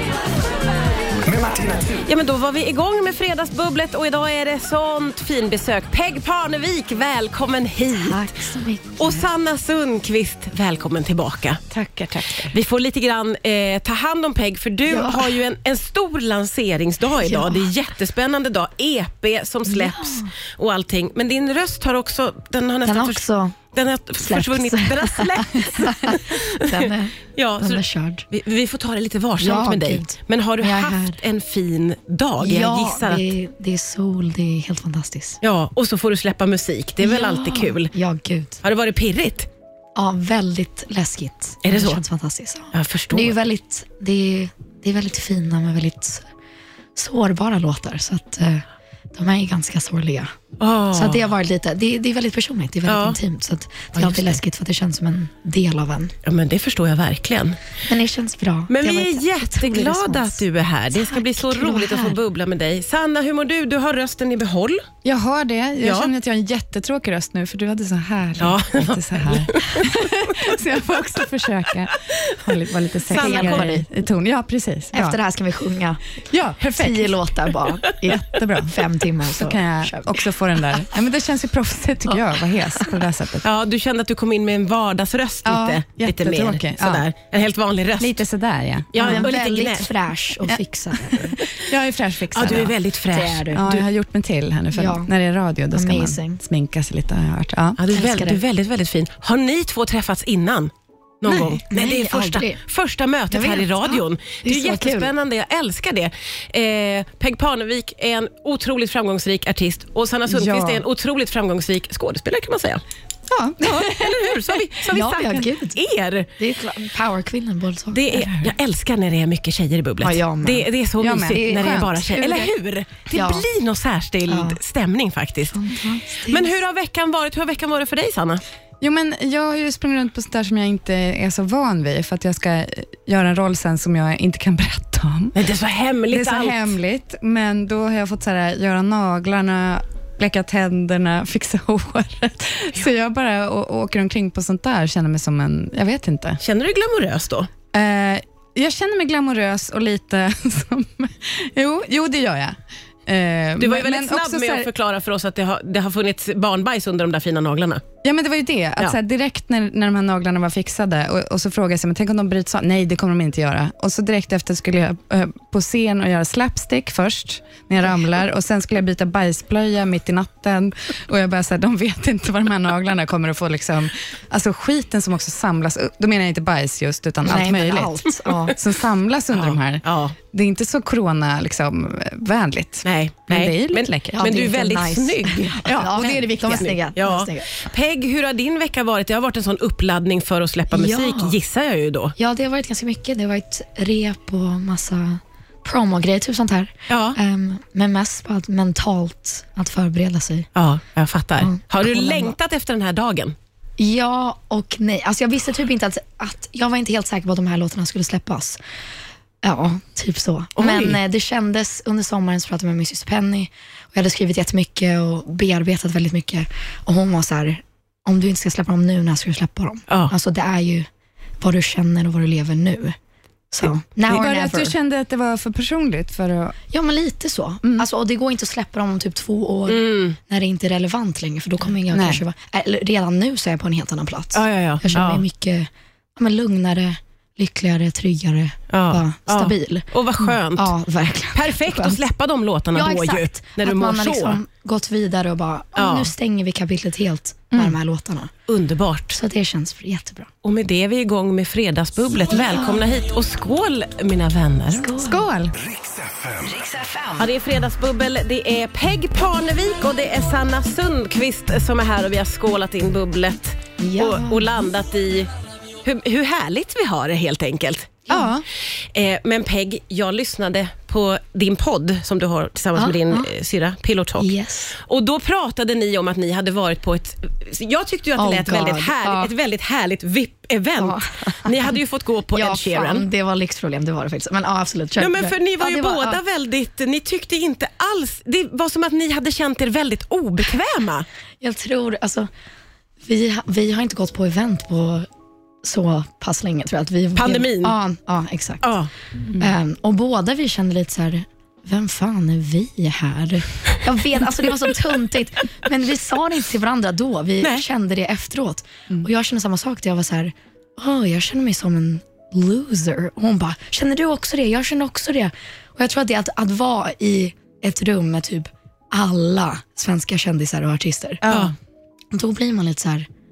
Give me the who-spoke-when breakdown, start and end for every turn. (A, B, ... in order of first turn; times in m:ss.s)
0:01.2-0:02.0 A
0:02.0-0:11.6 B
0:07.9-0:09.3 C
0:11.7-0:12.5 D
0:12.4-0:33.3 B
0:14.9-0:15.4 C
0:17.2-0:17.7 C
0:19.6-0:20.3 C
0:22.8-0:23.6 C
0:24.2-0:28.2 C
0:29.4-0:31.2 C
0:32.4-0:35.4 C
0:35.4-0:37.9 B
0:37.0-0:38.6 C
0:38.6-0:39.5 B
0:40.0-0:46.2 C
0:41.6-0:42.0 B
0:42.7-0:43.4 B
0:47.0-0:50.3 C
0:50.6-0:51.2 B
0:50.9-0:56.1 C
0:52.9-0:53.2 B
0:53.9-0:54.4 B
0:56.2-0:57.6 B
0:57.9-1:00.4 C
0:58.7-1:04.8 B
1:00.9-1:02.2 C
1:05.0-1:15.2 D
1:05.8-1:06.1 B
1:08.4-1:10.1 B
1:13.1-1:13.8 B
1:13.1-1:13.8 C
1:14.9-1:16.0 C
1:16.3-1:17.1 D
1:16.6-1:20.2 C
1:18.1-1:18.7 D
1:19.2-1:23.4 D
1:23.4-1:28.2 B
1:25.4-1:27.0 D
1:28.0-1:29.3 D
1:28.9-1:29.9 B
1:29.0-1:31.4 C
1:31.1-1:32.8 D
1:32.3-1:33.8 B
1:33.1-1:33.7 C
1:33.5-1:37.8 D
1:34.7-1:35.1 C
1:35.7-1:36.4 C
1:37.8-1:52.8 B
1:37.9-1:38.4 C
1:41.3-1:41.6 D
1:41.7-1:42.6 C
1:43.3-1:45.1 C
1:50.3-1:50.8 D
1:53.3-1:54.6 D
1:53.7-1:56.3 B
1:54.9-1:55.8 C
1:56.4-1:58.0 C
1:57.9-2:05.6 B
1:58.1-1:58.5 D
2:00.0-2:00.7 C
2:01.0-2:02.5 D
2:01.3-2:01.8 C
2:03.1-2:03.4 C
2:04.3-2:04.6 C
2:05.5-2:06.6 C
2:06.3-2:08.4 B
2:08.8-2:15.3 D
2:15.3-2:16.7 B
2:16.1-2:26.4 D
2:26.4-2:27.5 B
2:27.7-2:34.7 D
2:33.6-2:37.8 B
2:38.0-2:58.0 D
2:57.2-2:58.5 C
2:58.5-3:04.4 D
2:59.3-3:00.2 B
3:02.8-3:12.1 B
3:04.1-3:07.5 C
3:05.6-3:06.7 D
3:10.7-3:11.4 C
3:12.2-3:20.5 C
3:16.9-3:17.2 B
3:20.5-3:23.4 B
3:21.4-3:22.4 C
3:23.8-3:28.6 C
3:29.4-3:40.9 C
3:30.6-3:31.0 B
3:39.9-3:40.1 B
3:41.4-3:43.0 C
3:43.5-3:44.7 C
3:44.1-3:46.6 D
3:46.7-3:59.9 C
3:49.7-3:50.2 B
3:51.9-3:52.2 D
3:54.3-3:55.2 B
3:58.7-4:00.7 B
4:00.6-4:02.0 C
4:01.3-4:04.4 B
4:02.7-4:08.3 C
4:05.8-4:06.1 B
4:07.5-4:07.8 D
4:08.5-4:09.2 B
4:09.1-4:10.3 C
4:10.4-4:14.9 B
4:12.3-4:12.8 C
4:14.7-4:15.2 C
4:15.0-4:15.5 D
4:15.6-4:16.7 A
4:17.2-4:25.3 B
4:23.8-4:24.5 C
4:25.8-4:28.0 B
4:28.1-4:28.4 C
4:28.1-4:28.4 D
4:28.9-4:43.0 B
4:32.7-4:33.3 C
4:34.2-4:34.7 C
4:38.2-4:39.3 C
4:40.8-4:41.7 C
4:42.3-4:46.2 C
4:45.0-4:51.1 B
4:51.4-4:52.3 C
4:53.0-4:55.1 C
4:55.6-4:58.7 C
4:57.1-4:57.8 B
4:58.6-4:58.9 B
4:59.4-5:21.2 C
5:21.2-5:21.5 D
5:22.1-5:23.1 C